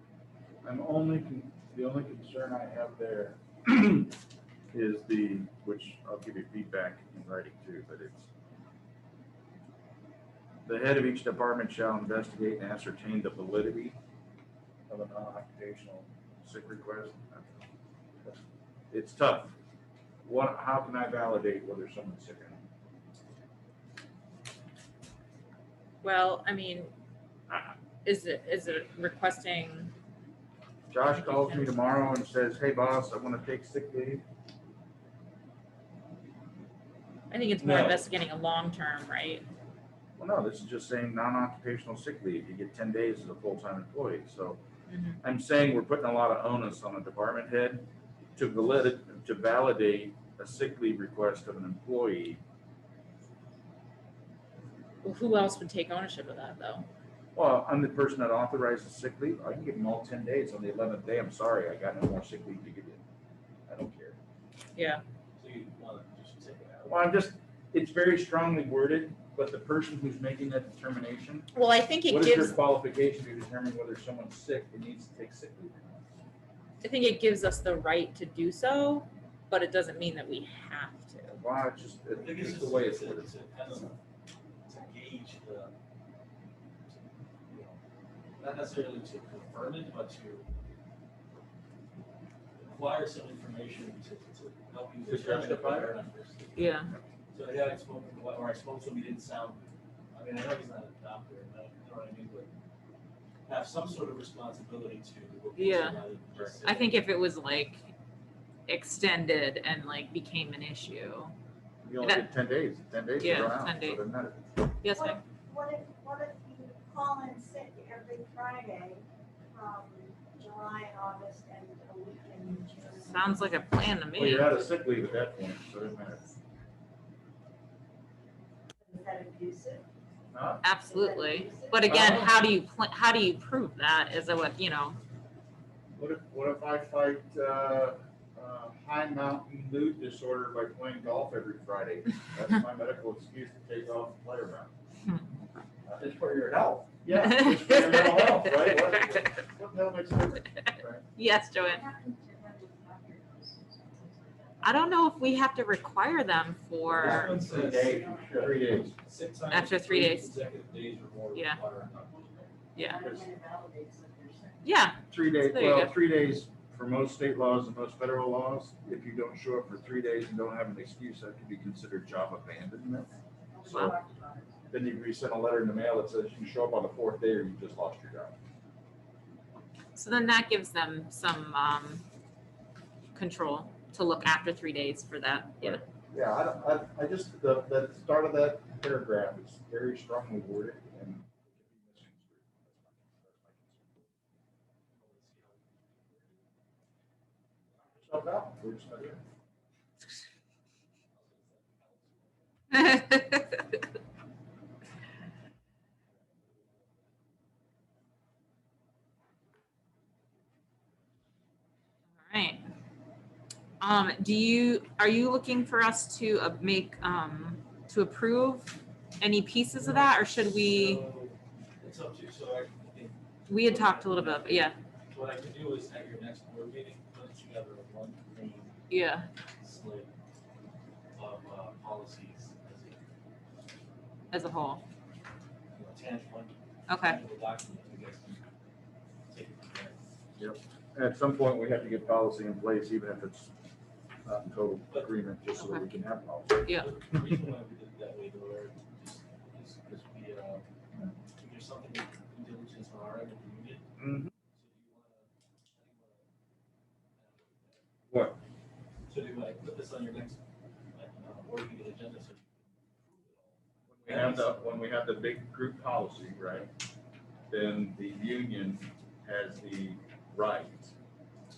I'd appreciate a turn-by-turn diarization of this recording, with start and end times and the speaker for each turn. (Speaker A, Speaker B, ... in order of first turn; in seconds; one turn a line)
Speaker A: 0.6-4.2
Speaker A: 4.7-8.3
Speaker A: 10.7-13.9
Speaker A: 14.9-17.6
Speaker A: 18.9-19.5
Speaker A: 20.2-22.6
Speaker B: 26.0-26.9
Speaker B: 28.0-29.9
Speaker A: 30.9-34.2
Speaker B: 31.1-32.0
Speaker B: 37.3-39.4
Speaker A: 37.6-38.0
Speaker A: 40.2-44.6
Speaker B: 44.9-45.2
Speaker A: 45.2-52.4
Speaker B: 55.0-56.9
Speaker A: 57.3-63.0
Speaker A: 63.7-64.2
Speaker B: 64.8-65.0
Speaker C: 65.4-66.9
Speaker A: 66.8-71.5
Speaker B: 71.5-72.6
Speaker A: 72.1-76.0
Speaker B: 76.8-81.4
Speaker A: 81.3-83.3
Speaker C: 82.1-84.0
Speaker C: 84.7-85.7
Speaker C: 87.5-87.8
Speaker C: 88.4-90.6
Speaker C: 92.6-96.6
Speaker A: 95.1-96.0
Speaker B: 96.5-96.9
Speaker C: 97.3-102.5
Speaker C: 103.5-107.0
Speaker B: 105.6-106.0
Speaker B: 106.6-107.8
Speaker B: 108.7-111.3
Speaker A: 111.8-114.6
Speaker B: 112.0-112.3
Speaker B: 113.2-114.0
Speaker B: 114.8-115.2
Speaker D: 114.9-123.5
Speaker B: 122.9-124.6
Speaker A: 124.1-126.2
Speaker D: 128.8-129.8
Speaker A: 130.3-130.6
Speaker B: 130.6-135.0
Speaker D: 130.8-132.3
Speaker A: 131.8-132.3
Speaker A: 135.9-144.7
Speaker A: 145.8-151.0
Speaker B: 147.2-148.9
Speaker B: 151.2-151.8
Speaker D: 151.6-154.8
Speaker B: 154.6-157.4
Speaker C: 156.8-162.5
Speaker A: 157.0-158.9
Speaker D: 157.8-158.3
Speaker B: 159.5-160.3
Speaker B: 161.3-161.6
Speaker B: 162.7-163.1
Speaker D: 162.8-164.6
Speaker B: 164.6-165.9
Speaker A: 165.1-173.1
Speaker D: 173.5-174.7
Speaker A: 173.7-174.0
Speaker A: 174.7-178.3
Speaker B: 179.9-182.0
Speaker B: 183.1-185.8
Speaker A: 185.6-194.0
Speaker C: 194.9-196.4
Speaker A: 197.8-199.2
Speaker C: 201.1-202.7
Speaker B: 202.7-203.6
Speaker C: 206.1-207.1
Speaker B: 212.2-212.6
Speaker B: 213.8-221.0
Speaker C: 219.8-228.8
Speaker B: 223.5-224.8
Speaker B: 228.9-229.3
Speaker C: 229.6-230.1
Speaker C: 231.1-233.0
Speaker B: 234.3-234.8
Speaker C: 235.7-238.4
Speaker B: 236.9-237.2
Speaker C: 239.3-240.0
Speaker A: 240.4-243.5
Speaker A: 244.2-246.7
Speaker C: 244.9-245.2
Speaker B: 245.5-245.8
Speaker B: 246.6-246.9
Speaker C: 246.7-250.6
Speaker C: 251.4-253.8
Speaker A: 254.0-254.3
Speaker C: 254.5-256.2
Speaker C: 257.1-257.8
Speaker A: 258.1-258.4
Speaker C: 259.1-260.4
Speaker C: 260.9-264.8
Speaker A: 263.9-266.7
Speaker A: 267.5-270.9